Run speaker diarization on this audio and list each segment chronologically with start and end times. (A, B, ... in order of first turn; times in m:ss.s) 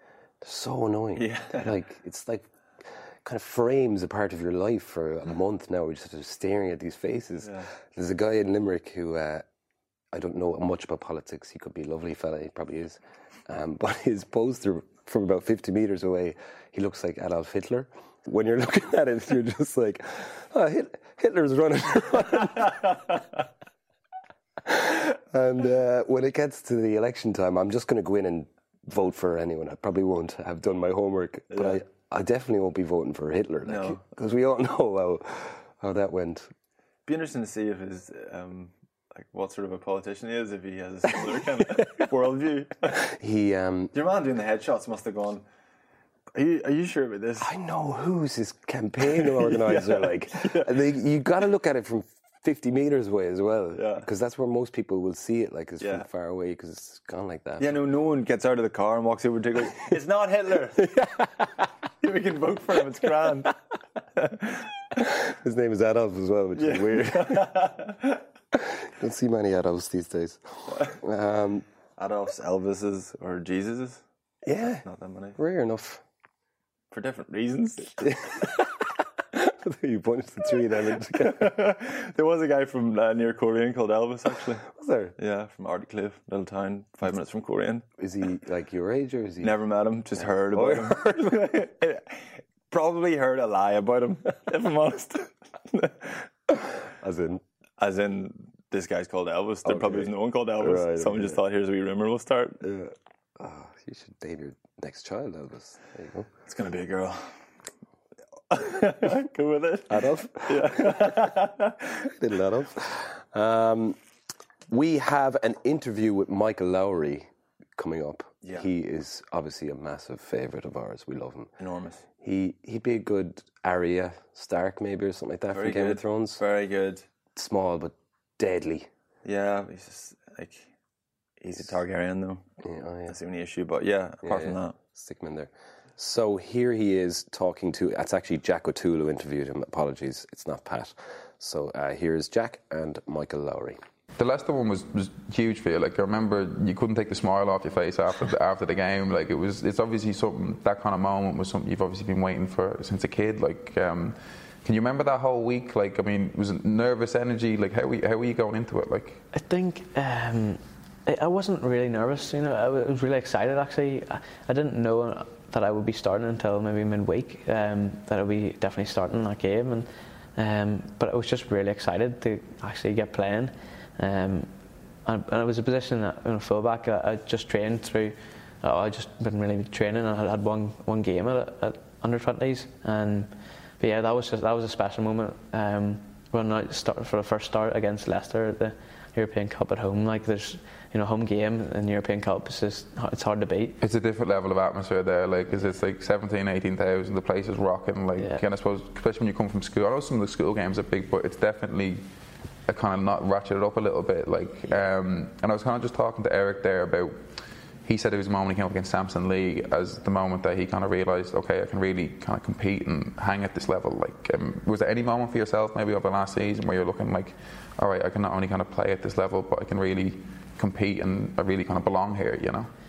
0:00.4-0:09.5 A
0:01.2-0:01.7 B
0:07.4-0:07.7 B
0:10.1-0:23.0 A
0:24.6-0:36.5 A
0:33.7-0:34.0 B
0:37.1-0:43.0 B
0:43.0-0:43.9 A
0:43.9-0:45.4 B
0:46.3-0:47.5 B
0:47.4-0:57.8 A
0:49.4-0:50.7 B
0:53.7-0:54.1 B
0:55.8-0:56.1 B
0:57.6-1:01.0 B
1:01.0-1:01.4 A
1:02.0-1:03.6 B
1:04.2-1:04.6 B
1:05.0-1:07.6 A
1:06.6-1:08.2 B
1:08.5-1:11.7 A
1:12.0-1:14.0 B
1:14.4-1:16.0 A
1:14.8-1:15.4 B
1:16.9-1:18.2 B
1:18.0-1:21.5 A
1:21.2-1:24.7 B
1:24.7-1:25.2 A
1:25.2-1:27.8 B
1:28.0-1:29.6 A
1:29.4-1:36.3 B
1:30.2-1:31.5 A
1:36.5-1:37.4 A
1:37.8-1:42.6 B
1:39.6-1:41.4 A
1:42.6-1:46.3 A
1:46.5-1:47.3 B
1:48.5-1:51.9 B
1:49.9-1:51.3 A
1:52.0-1:54.0 A
1:54.7-2:01.5 A
2:01.6-2:02.0 B
2:02.2-2:06.4 A
2:05.5-2:07.1 B
2:07.4-2:08.9 A
2:09.2-2:10.7 B
2:11.4-2:12.4 B
2:12.6-2:13.2 A
2:13.1-2:14.8 B
2:14.2-2:23.8 A
2:24.2-2:39.2 C
2:39.3-3:13.8 D
3:13.8-3:22.1 C
3:18.2-3:18.4 D
3:22.6-3:42.7 C